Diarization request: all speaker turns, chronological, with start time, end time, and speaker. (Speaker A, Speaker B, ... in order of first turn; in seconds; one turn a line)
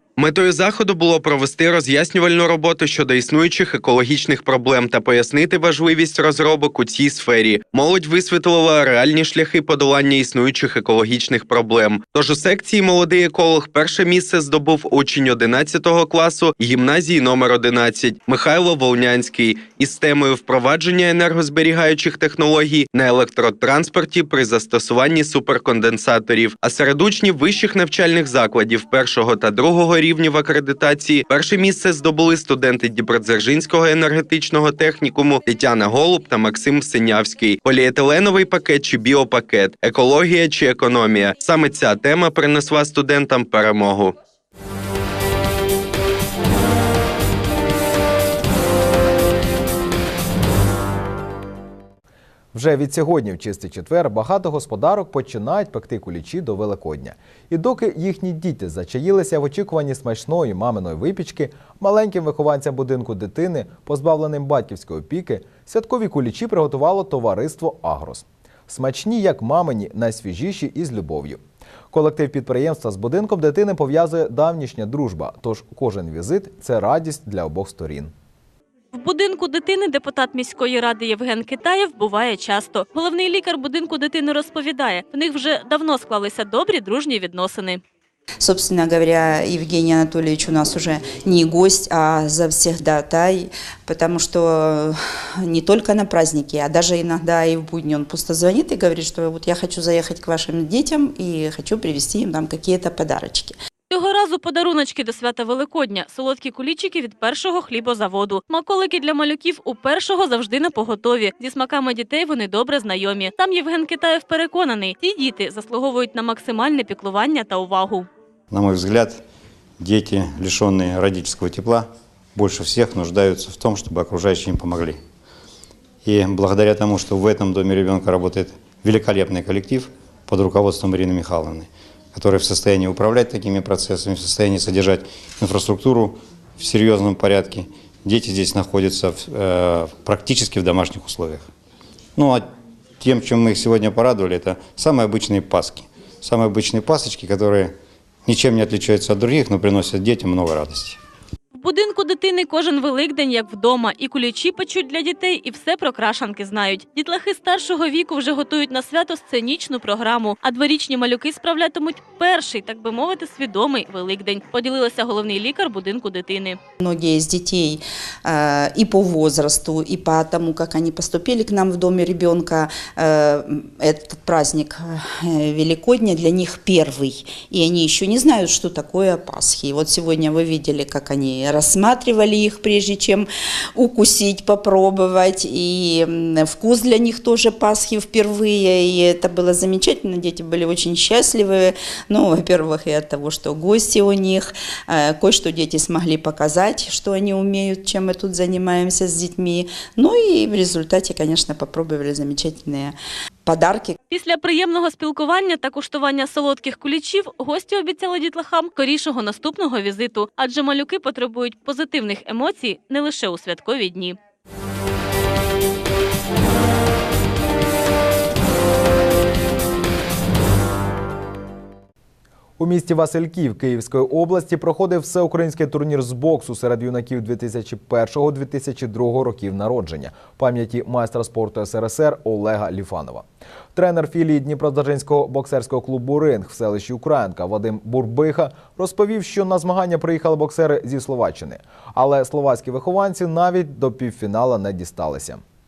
Speaker A: 0.2-44.1
Speaker B: 52.5-71.4
Speaker B: 71.9-78.1
Speaker C: 79.0-87.8
Speaker D: 88.4-103.5
Speaker C: 103.9-118.0
Speaker E: 118.5-119.2
Speaker E: 119.8-125.0
Speaker E: 126.0-141.5
Speaker E: 142.2-142.5
Speaker E: 143.0-151.0
Speaker C: 151.6-166.5
Speaker D: 166.8-202.9
Speaker D: 203.5-203.9
Speaker C: 204.1-214.1
Speaker B: 222.6-245.4